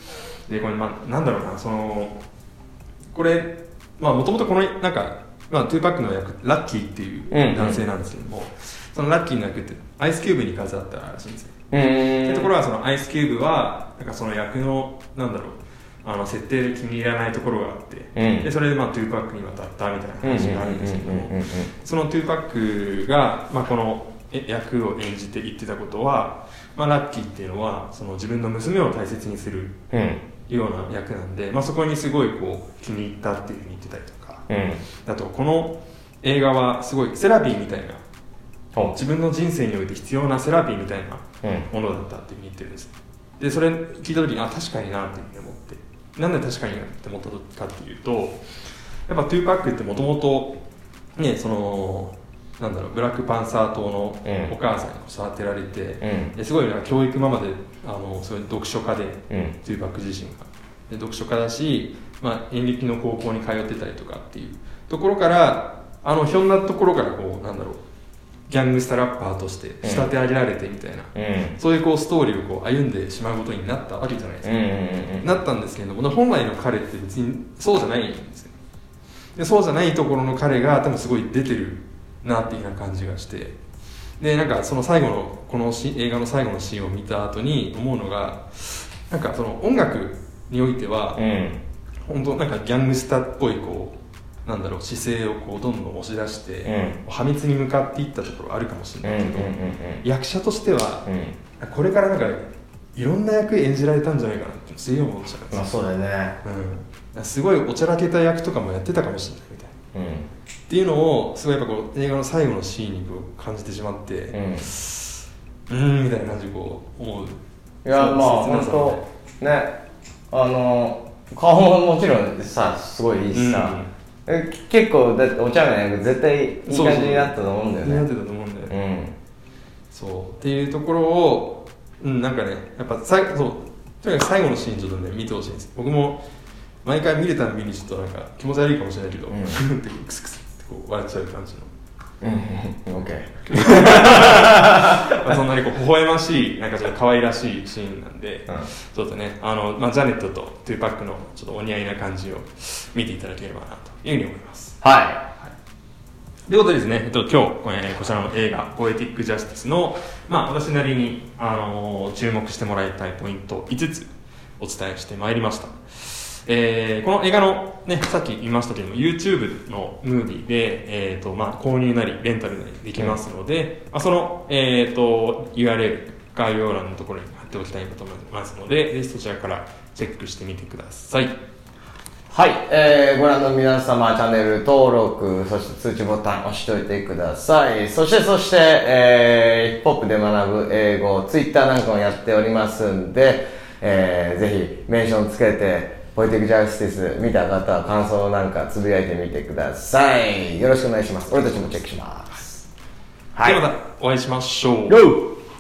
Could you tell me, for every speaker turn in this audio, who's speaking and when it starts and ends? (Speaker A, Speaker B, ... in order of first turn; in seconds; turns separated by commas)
Speaker A: 0.5-2.2, Speaker A: 3.1-11.6, Speaker B: 7.3-7.8, Speaker B: 11.7-12.5, Speaker A: 12.1-29.8, Speaker B: 18.1-18.5, Speaker B: 20.2-21.7, Speaker B: 29.9-30.2, Speaker A: 30.5-34.5, Speaker B: 34.5-34.8, Speaker A: 35.0-38.0, Speaker A: 38.8-48.4, Speaker B: 41.4-41.7, Speaker A: 49.1-50.6, Speaker A: 51.2-67.8, Speaker B: 54.2-54.5, Speaker B: 56.0-56.3, Speaker B: 59.3-59.5, Speaker A: 68.5-74.6, Speaker B: 69.8-70.1, Speaker B: 71.1-71.6, Speaker B: 74.4-75.3, Speaker A: 75.2-78.5, Speaker A: 79.4-83.6, Speaker A: 84.2-91.3, Speaker B: 91.2-91.6, Speaker A: 92.0-101.1, Speaker B: 96.6-97.0, Speaker B: 99.0-100.0, Speaker B: 101.1-101.4, Speaker A: 101.6-102.4, Speaker A: 102.9-105.7, Speaker B: 105.5-106.4, Speaker A: 106.4-109.7, Speaker B: 109.9-110.3, Speaker A: 110.7-119.1, Speaker B: 114.3-114.7, Speaker B: 117.8-119.8, Speaker B: 120.3-128.1, Speaker A: 123.3-123.9, Speaker A: 126.7-128.7, Speaker B: 128.7-129.1, Speaker A: 129.9-136.2, Speaker A: 136.8-141.7, Speaker B: 139.3-139.6, Speaker B: 142.2-145.2, Speaker A: 143.5-154.8, Speaker B: 154.8-155.2, Speaker A: 156.5-181.4, Speaker B: 182.3-202.7, Speaker B: 203.3-203.6, Speaker A: 203.4-205.1, Speaker B: 204.9-205.3